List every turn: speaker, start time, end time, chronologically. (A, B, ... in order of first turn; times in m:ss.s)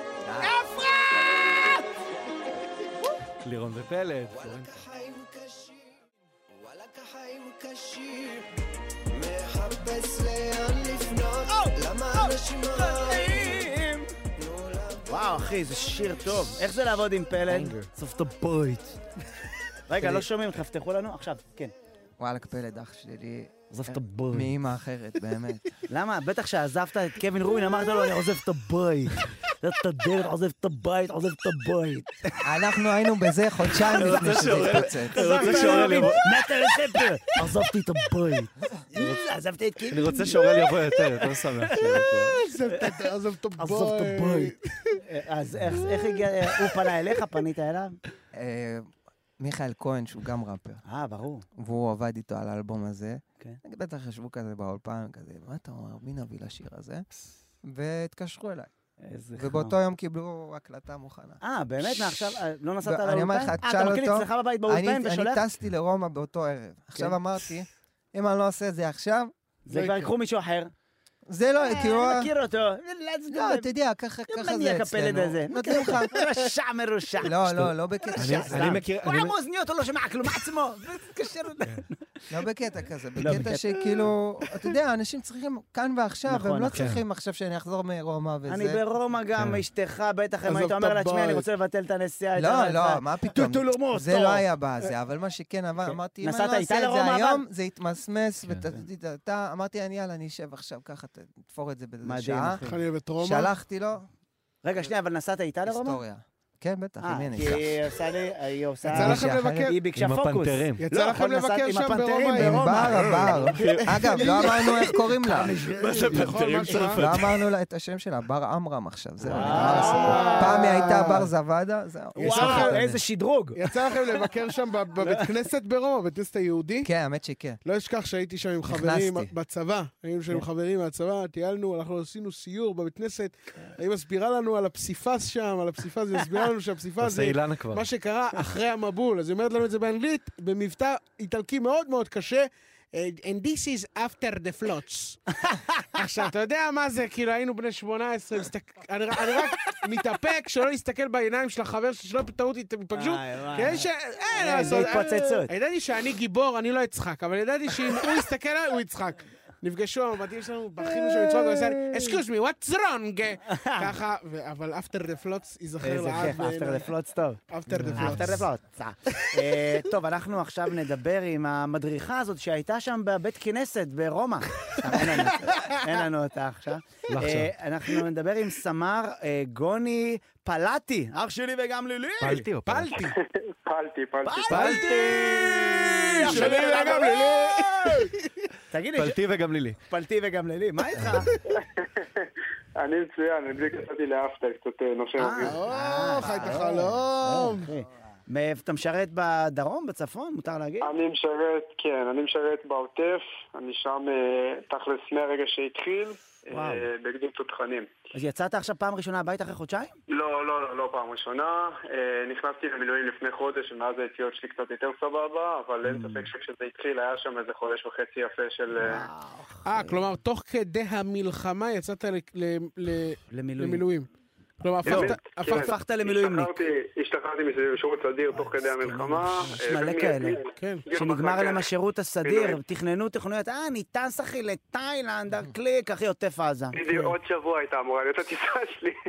0:00.2-0:00.8 A
0:00.5-0:01.8 B
0:03.4-0:04.8 C
0:04.3-0:06.0 A
0:06.6-0:08.5 A
0:09.1-0:13.7 A
0:11.5-0:14.1 B
0:14.4-0:15.5 A
0:15.1-0:19.0 B
0:17.5-0:17.9 C
0:19.9-0:21.7 B
0:22.2-0:25.7 A
0:23.7-0:24.5 B
0:25.9-0:32.3 B
0:32.4-0:35.2 A
0:33.9-0:36.2 C
0:34.0-0:42.1 B
0:35.6-0:36.0 D
0:39.9-0:42.4 C
0:42.2-0:45.0 D
0:42.7-0:43.0 B
0:43.6-0:44.5 B
0:45.0-0:48.0 B
0:48.3-0:48.9 A
0:49.4-0:50.8 A
0:50.8-0:51.4 B
0:51.6-0:57.0 A
0:57.6-0:58.7 A
0:59.0-0:59.8 B
0:59.4-1:02.1 A
1:01.4-1:05.4 B
1:02.8-1:09.3 A
1:09.6-1:10.7 B
1:09.7-1:10.1 D
1:11.3-1:12.3 A
1:11.6-1:13.7 B
1:13.3-1:16.2 A
1:14.3-1:22.2 B
1:17.2-1:18.8 A
1:18.2-1:19.3 C
1:22.3-1:28.8 A
1:23.2-1:24.1 B
1:26.3-1:26.8 B
1:26.7-1:27.0 C
1:28.5-1:34.4 B
1:29.4-1:29.6 C
1:30.4-1:31.4 D
1:32.4-1:42.6 A
1:35.9-1:37.4 B
1:42.0-1:42.8 B
1:42.6-1:43.5 D
1:43.2-1:44.1 A
1:44.6-1:46.0 B
1:45.6-1:47.8 A
1:47.0-1:56.8 B
1:48.9-1:49.8 D
1:49.0-1:49.7 A
1:50.0-1:50.8 C
1:50.8-1:54.8 D
1:52.4-1:55.5 A
1:53.6-1:54.3 C
1:55.4-1:57.0 D
1:55.7-1:57.4 C
1:57.0-2:02.8 A
1:59.3-1:59.8 C
1:59.3-2:01.2 B
1:59.4-2:01.2 D
2:02.2-2:04.2 B
2:02.2-2:02.8 D
2:03.6-2:06.9 D
2:05.0-2:05.3 B
2:06.8-2:07.6 A
2:07.6-2:25.2 D
2:08.7-2:09.3 A
2:17.0-2:17.8 C
2:25.4-2:25.9 B
2:25.9-2:46.9 D
2:32.9-2:35.5 B
2:43.5-2:43.9 B
2:45.8-2:47.4 B
2:47.5-2:48.4 D
2:47.7-2:48.4 C
2:47.9-3:02.5 B
2:54.9-2:55.7 D
2:57.1-2:57.5 C
3:02.2-3:03.0 C
3:02.6-3:03.1 D
3:03.1-3:04.7 E
3:04.2-3:08.1 B
3:04.5-3:04.9 C
3:04.5-3:08.5 D
3:08.7-3:09.2 B
3:09.0-3:09.8 C
3:09.9-3:11.3 B
3:11.5-3:15.6 E
3:15.2-3:20.9 B
3:15.4-3:17.7 D
3:20.8-3:27.9 E
3:26.5-3:26.9 B
3:28.1-3:29.9 B
3:30.1-3:39.1 E
3:35.8-3:36.3 B
3:38.8-3:39.9 B
3:39.6-3:44.1 D
3:43.3-3:43.9 B
3:44.6-3:45.8 D
3:44.8-3:51.7 E
3:44.8-3:46.6 B
3:48.4-3:57.1 B
3:50.6-3:50.8 D
3:52.2-3:52.6 E
3:56.7-3:59.0 E